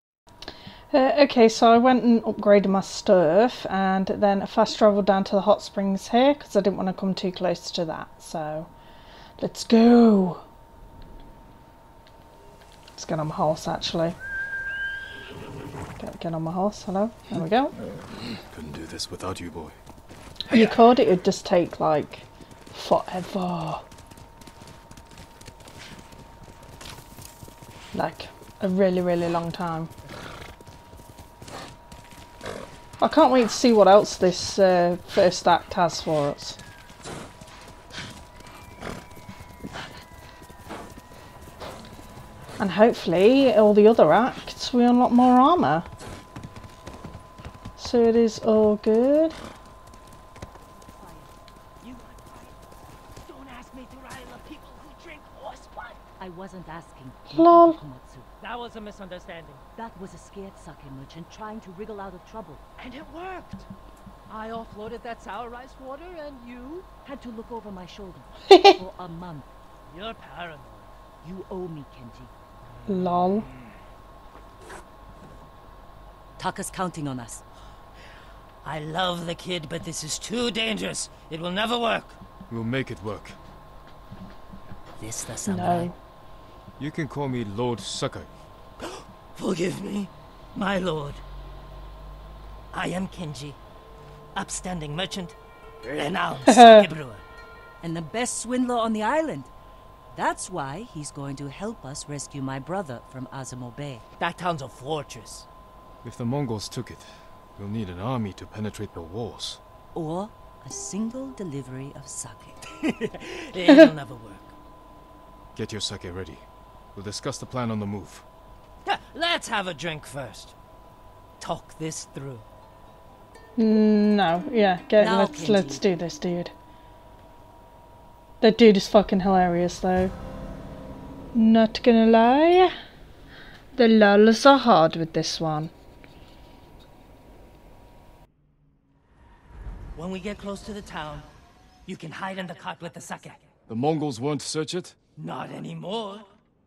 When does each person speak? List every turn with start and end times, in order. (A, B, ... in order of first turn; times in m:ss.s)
0:00.9-0:08.7 A
0:09.4-0:10.4 A
0:13.0-0:14.2 A
0:16.0-0:17.8 A
0:18.5-0:19.8 B
0:20.5-0:23.8 A
0:27.9-0:29.9 A
0:33.0-0:36.6 A
0:42.6-0:45.9 A
0:47.8-0:49.4 A
0:51.0-0:51.3 C
0:51.8-0:52.5 D
0:53.2-0:56.0 D
0:56.2-0:58.3 C
0:57.3-0:57.8 A
0:58.4-0:59.6 D
0:59.7-1:02.8 C
1:02.8-1:03.7 D
1:04.3-1:06.9 D
1:07.0-1:09.5 C
1:08.5-1:08.8 A
1:09.9-1:10.9 D
1:11.2-1:12.3 C
1:12.9-1:13.5 A
1:16.4-1:17.4 C
1:18.6-1:22.2 D
1:22.5-1:23.4 B
1:25.0-1:25.9 C
1:25.0-1:25.4 D
1:25.4-1:25.9 A
1:26.8-1:28.3 B
1:28.8-1:31.2 D
1:32.7-1:33.6 D
1:34.3-1:37.2 D
1:36.5-1:36.9 A
1:37.8-1:39.5 C
1:40.1-1:44.0 C
1:44.2-1:45.4 D
1:46.0-1:49.6 B
1:49.9-1:52.6 C
1:52.8-1:54.5 D
1:55.5-1:58.2 B
1:58.8-2:00.5 D
2:01.4-2:02.4 D
2:03.6-2:06.5 A
2:05.0-2:05.8 C
2:08.4-2:10.1 A
2:11.3-2:12.7 A
2:13.7-2:15.7 A
2:20.0-2:21.3 D
2:21.8-2:23.5 D
2:23.7-2:25.0 B
2:25.2-2:26.3 D